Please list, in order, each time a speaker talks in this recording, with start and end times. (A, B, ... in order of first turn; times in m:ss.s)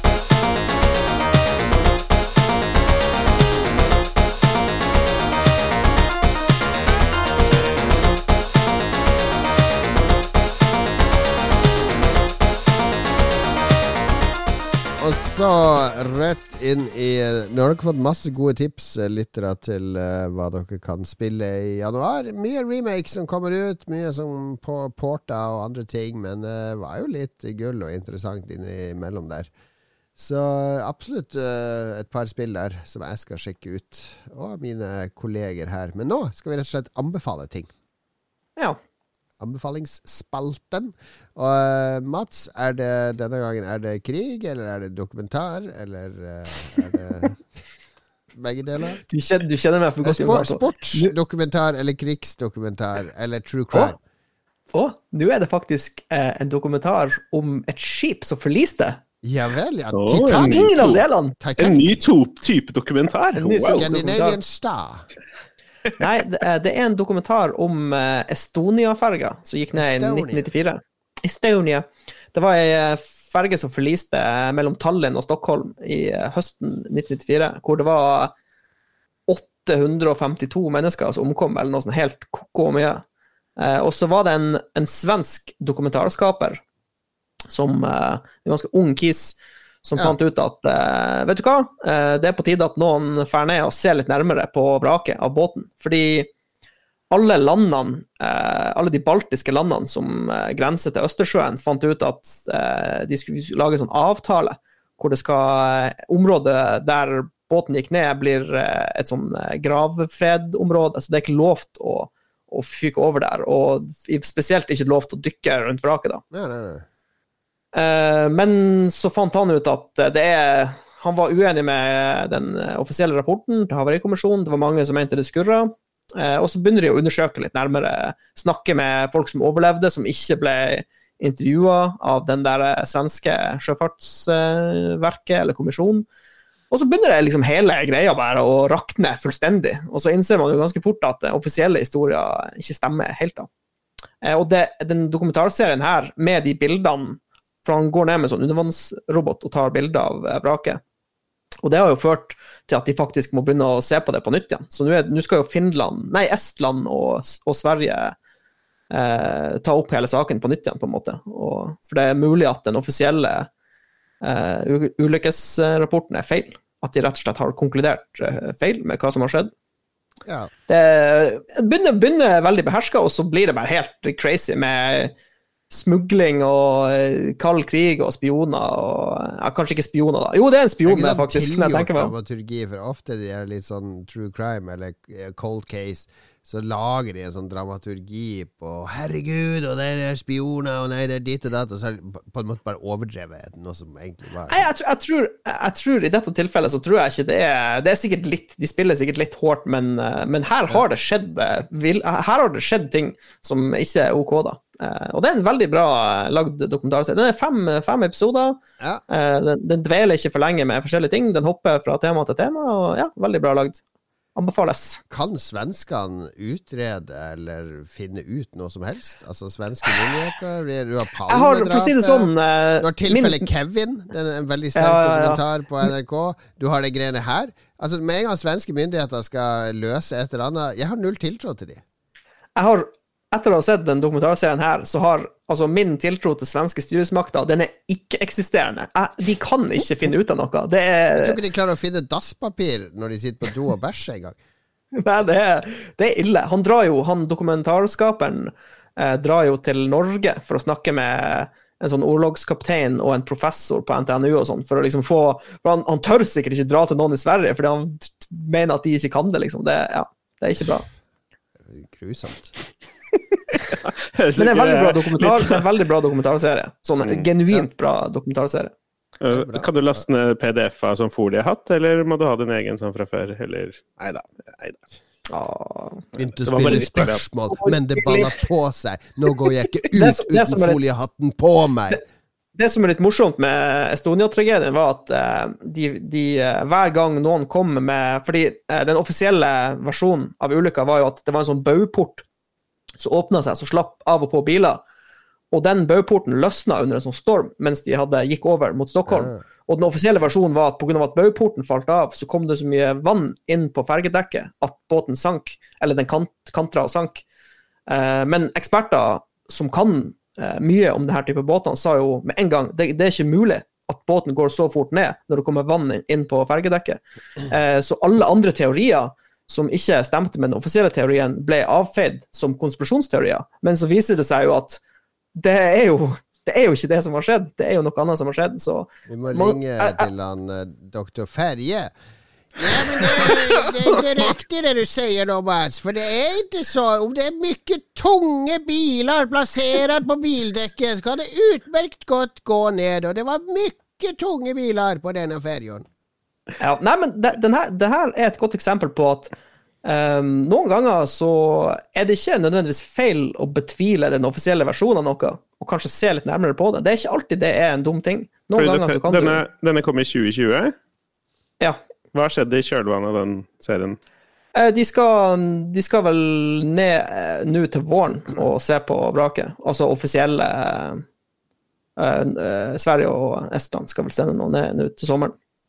0:15.0-0:29.5 A
0:30.2-0:37.7 A
0:39.4-0:47.6 A
0:48.3-0:49.0 A
0:49.1-0:51.1 B
0:50.0-0:54.0 A
0:54.7-0:59.0 B
0:59.2-1:01.9 A
0:59.9-1:01.0 C
1:00.4-1:01.4 B
1:01.6-1:03.8 C
1:03.3-1:04.4 B
1:03.7-1:05.0 A
1:06.0-1:18.3 B
1:09.8-1:10.5 A
1:19.3-1:23.0 B
1:23.6-1:26.6 B
1:27.5-1:36.3 B
1:37.1-1:56.2 B
1:56.3-1:56.8 A
1:57.7-2:16.0 B
2:16.7-2:23.5 B
2:24.2-2:30.8 B
2:31.6-2:38.2 B
2:38.9-2:43.5 B
2:44.2-2:49.5 B
2:50.2-2:50.5 A
2:50.7-2:55.1 B
2:55.7-3:02.1 B
3:00.8-3:14.6 A
3:14.5-3:33.8 B
3:34.3-3:35.0 B
3:35.1-3:51.8 A
3:41.3-3:43.4 B
3:44.8-3:45.4 B
3:52.6-4:01.4 B
4:01.1-4:04.4 A
4:05.0-4:20.8 B
4:21.6-4:22.5 A
4:23.7-4:25.6 C
4:24.4-4:28.7 B
4:29.2-4:34.8 C
4:29.3-4:29.7 A
4:35.3-4:36.0 B
4:36.2-4:42.0 A
4:36.4-4:37.2 C
4:37.5-4:38.4 B
4:39.9-4:40.8 B
4:42.6-4:52.2 B
4:53.0-4:54.8 B
4:55.5-5:07.2 B
4:59.1-4:59.4 A
5:07.9-5:24.8 B
5:25.4-5:30.1 B
5:29.1-5:31.9 A
5:32.6-5:45.8 A
5:46.6-5:49.3 B
5:49.8-5:59.4 B
5:58.5-6:00.7 C
6:02.1-6:04.0 C
6:04.5-6:11.0 B
6:12.0-6:15.3 B